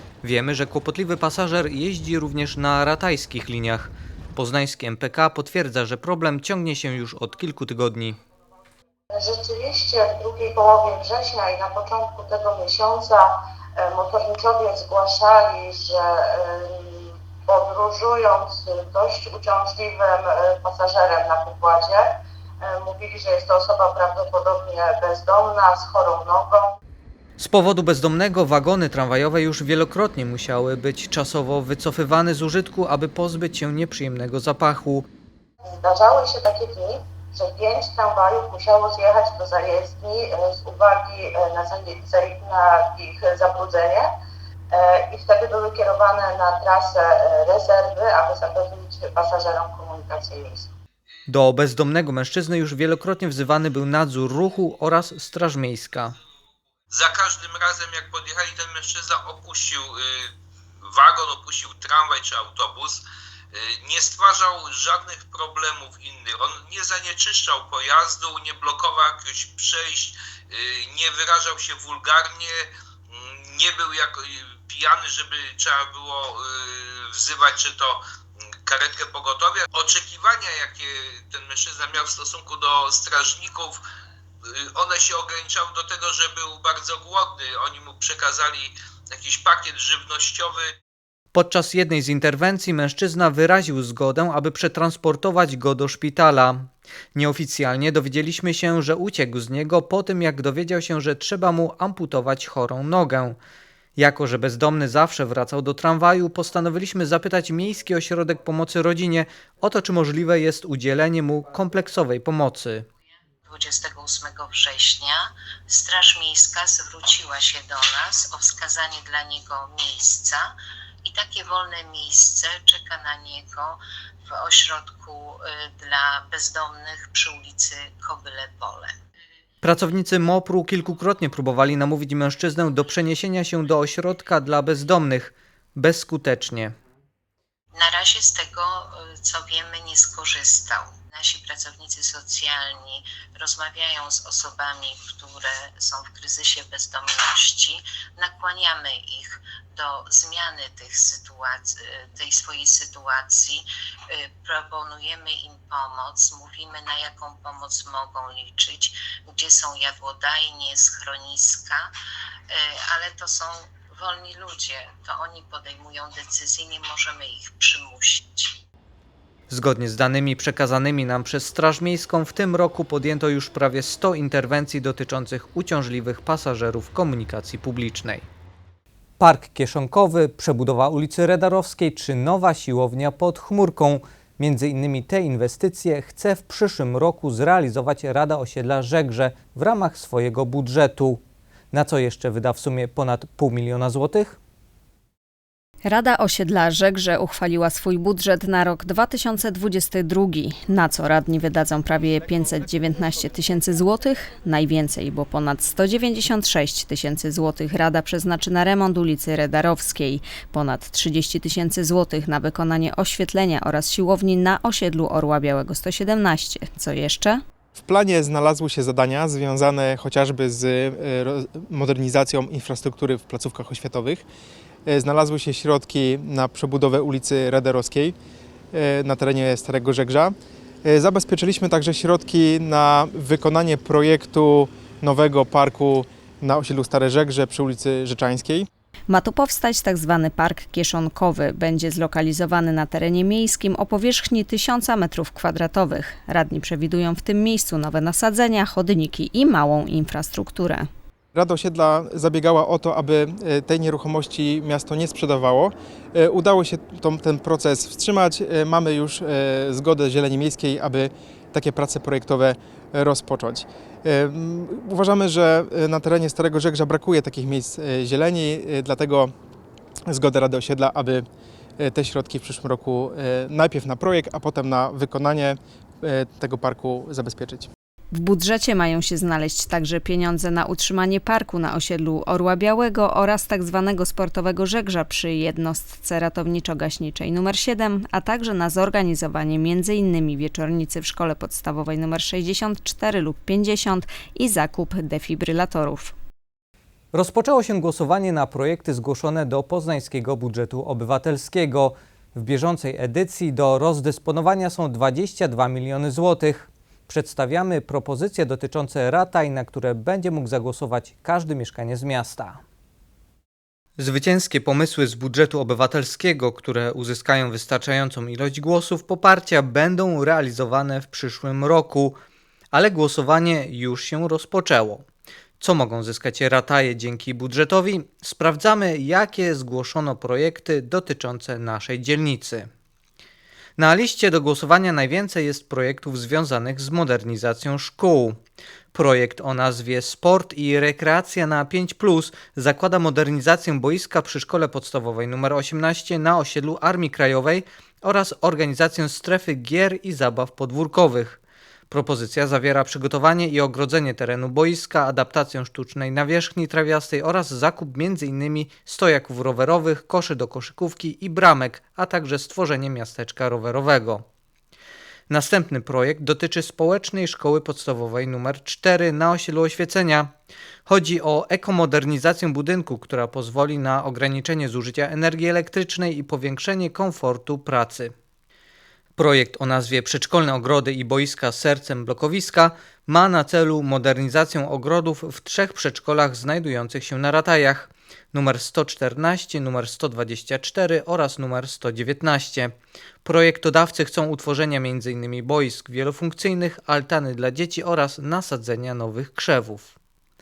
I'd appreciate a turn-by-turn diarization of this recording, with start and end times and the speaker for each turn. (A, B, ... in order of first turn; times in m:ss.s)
0:00.2-0:08.2 A
0:09.1-0:26.7 B
0:27.4-0:35.0 A
0:35.6-0:44.1 B
0:44.7-0:50.7 B
0:51.3-0:56.2 A
0:56.9-1:00.3 C
1:00.9-1:03.0 C
1:03.5-1:18.0 C
1:18.6-1:23.8 C
1:24.5-1:30.7 C
1:31.3-1:43.4 A
1:44.0-1:52.8 A
1:53.5-2:00.5 D
2:01.0-2:08.9 D
2:09.6-2:16.7 A
2:17.7-2:41.9 D
2:42.5-2:48.6 D
2:49.5-2:58.2 A
2:59.2-3:11.2 A
3:11.7-3:14.4 A
3:15.8-3:37.4 E
3:37.8-3:44.2 F
3:44.9-3:48.1 F
3:48.7-3:50.3 F
3:50.8-3:58.7 F
3:59.1-4:10.9 E
4:11.3-4:29.3 F
4:30.1-4:31.2 F
4:31.8-4:37.7 F
4:38.1-4:56.1 E
4:57.1-5:12.6 A
5:14.0-5:22.1 A
5:22.7-5:25.0 A
5:25.6-5:32.7 A
5:33.8-5:38.4 A
5:38.9-6:04.2 A
6:05.3-6:10.3 A
6:10.9-6:18.1 A
6:19.2-6:32.7 A
6:33.2-6:39.9 A